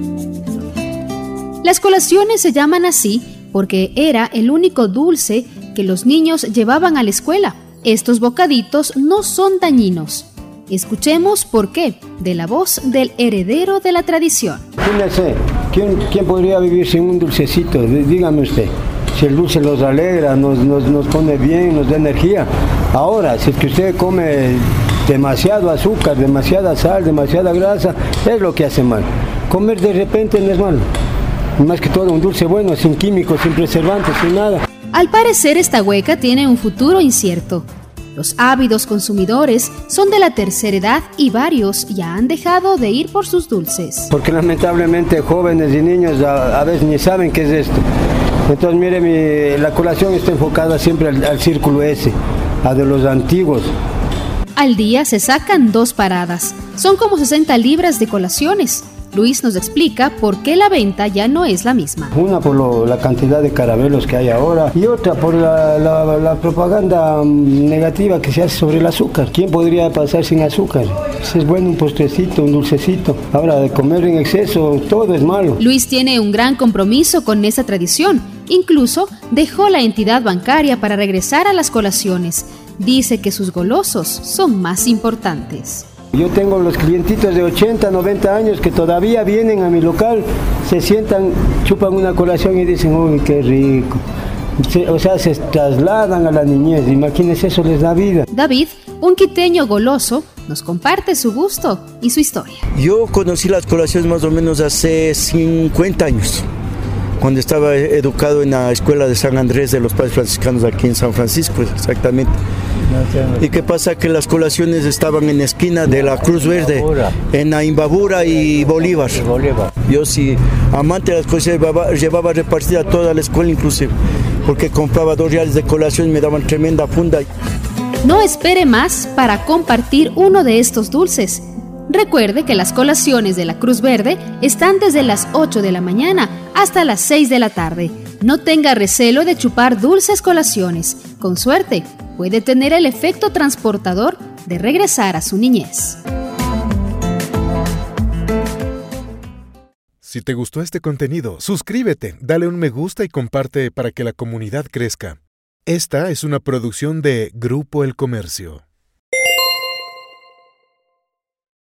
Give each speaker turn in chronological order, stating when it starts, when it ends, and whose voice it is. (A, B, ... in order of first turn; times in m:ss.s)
0:01.6-0:14.6 A
0:14.8-0:30.8 B
0:31.6-0:34.6 B
0:34.9-0:44.1 A
0:44.1-0:47.8 B
0:48.4-0:53.7 B
0:54.6-1:02.1 A
1:02.1-1:15.6 B
1:15.6-1:25.9 A
1:26.1-1:34.0 B
1:34.6-1:38.3 B
1:38.3-1:42.6 A
1:42.7-1:46.4 C
1:47.2-1:52.3 C
1:53.0-2:03.9 C
2:04.4-2:07.2 C
2:08.0-2:26.0 A
2:30.0-2:38.6 D